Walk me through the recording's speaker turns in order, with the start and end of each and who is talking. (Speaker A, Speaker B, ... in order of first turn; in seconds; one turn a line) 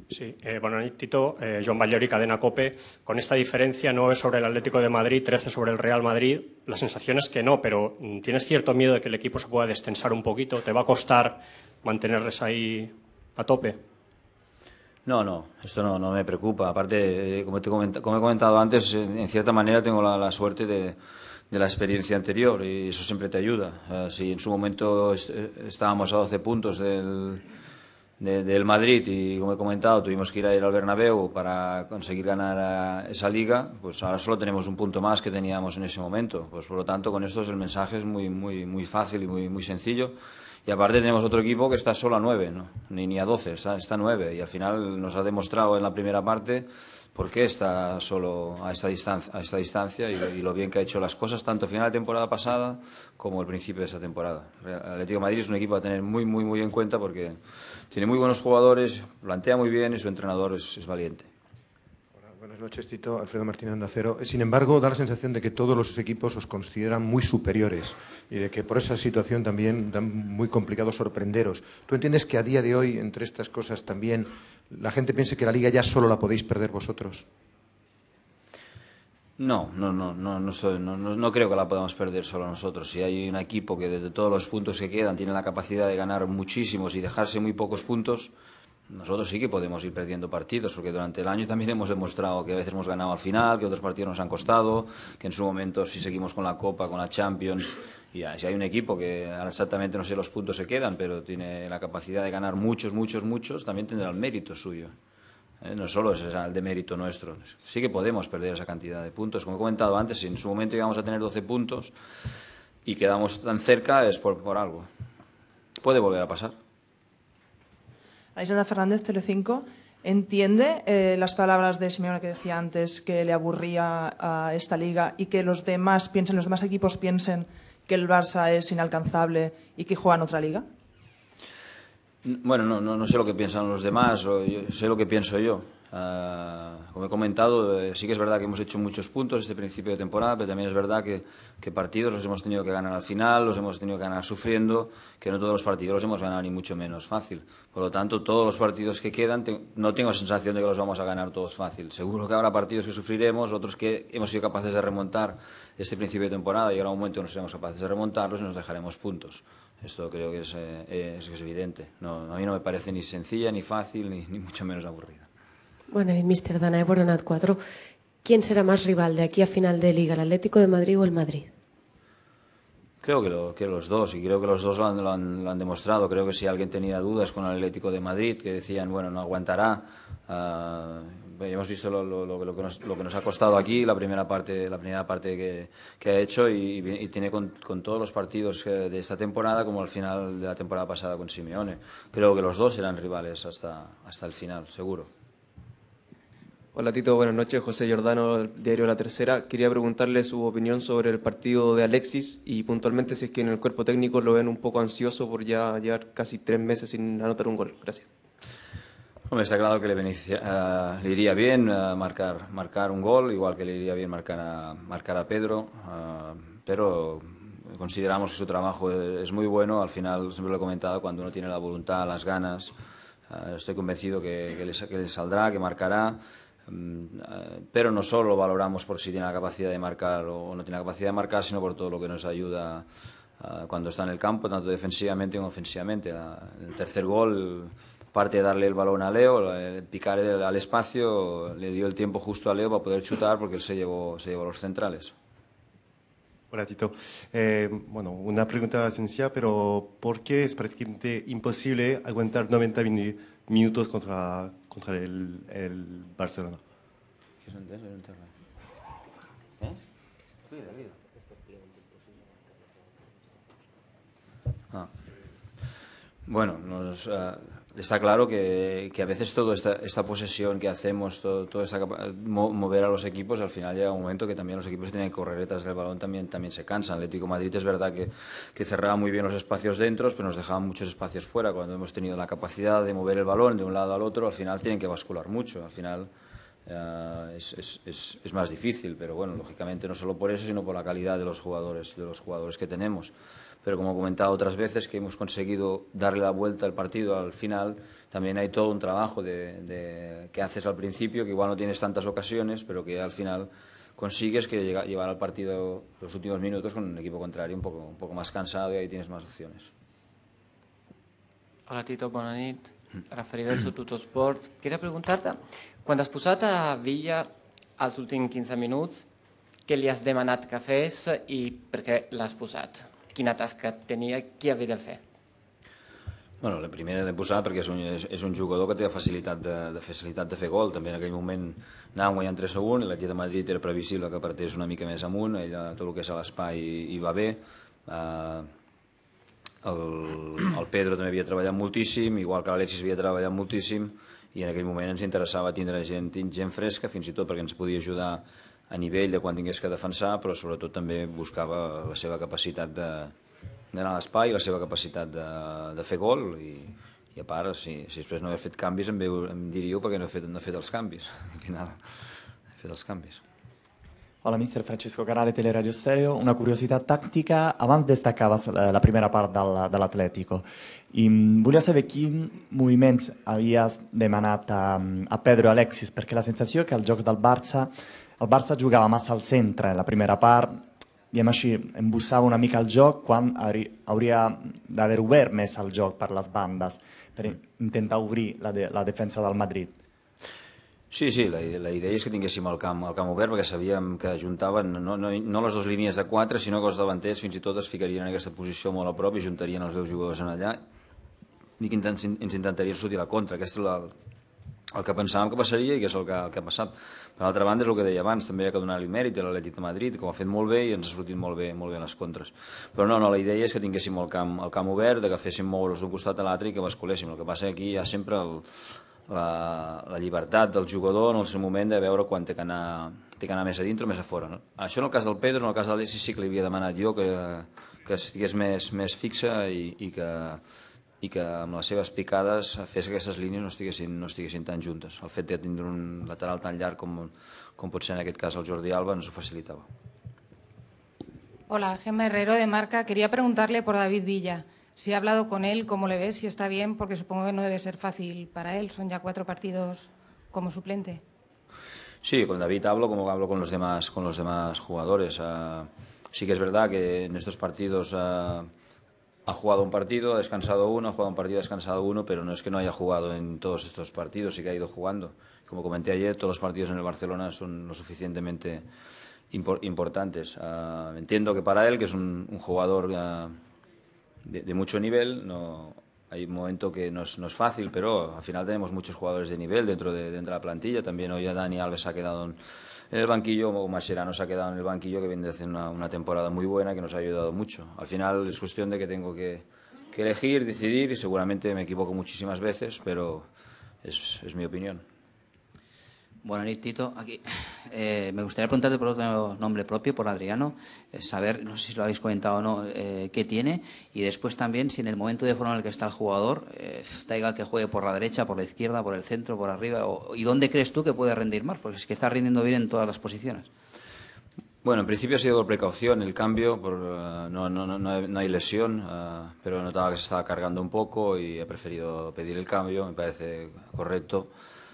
Speaker A: 0.1-13.8
Speaker B: 15.1-21.0
Speaker B: 21.5-27.4
Speaker B: 28.2-57.4
Speaker B: 57.9-61.3
Speaker C: 62.2-77.2
Speaker B: 79.4-88.3
Speaker B: 88.9-104.9
Speaker B: 105.6-111.9
Speaker B: 112.8-114.9
Speaker B: 115.8-116.5
Speaker D: 118.3-130.6
Speaker B: 132.2-165.3
Speaker E: 165.9-167.6
Speaker E: 168.2-171.5
Speaker B: 173.0-195.1
Speaker F: 196.7-208.0
Speaker B: 209.3-222.7
Speaker B: 223.3-232.8
Speaker B: 233.4-245.1
Speaker G: 246.5-256.6
Speaker B: 257.4-258.3
Speaker B: 266.3-286.1
Speaker B: 286.7-293.1
Speaker B: 293.6-309.7
Speaker H: 311.7-319.0
Speaker H: 319.6-325.0
Speaker B: 326.4-338.5
Speaker B: 339.6-353.1
Speaker B: 353.7-361.8
Speaker B: 362.5-363.2
Speaker I: 364.2-380.6
Speaker I: 381.1-389.7
Speaker B: 390.9-400.6
Speaker B: 401.6-403.9
Speaker B: 404.7-418.4
Speaker B: 419.1-430.4
Speaker B: 431.0-439.6
Speaker J: 441.5-451.0
Speaker B: 452.0-458.5
Speaker B: 459.3-468.6
Speaker B: 469.3-473.3
Speaker B: 474.2-482.4
Speaker B: 482.9-493.3
Speaker B: 493.8-494.8
Speaker K: 496.2-513.5
Speaker B: 514.6-524.3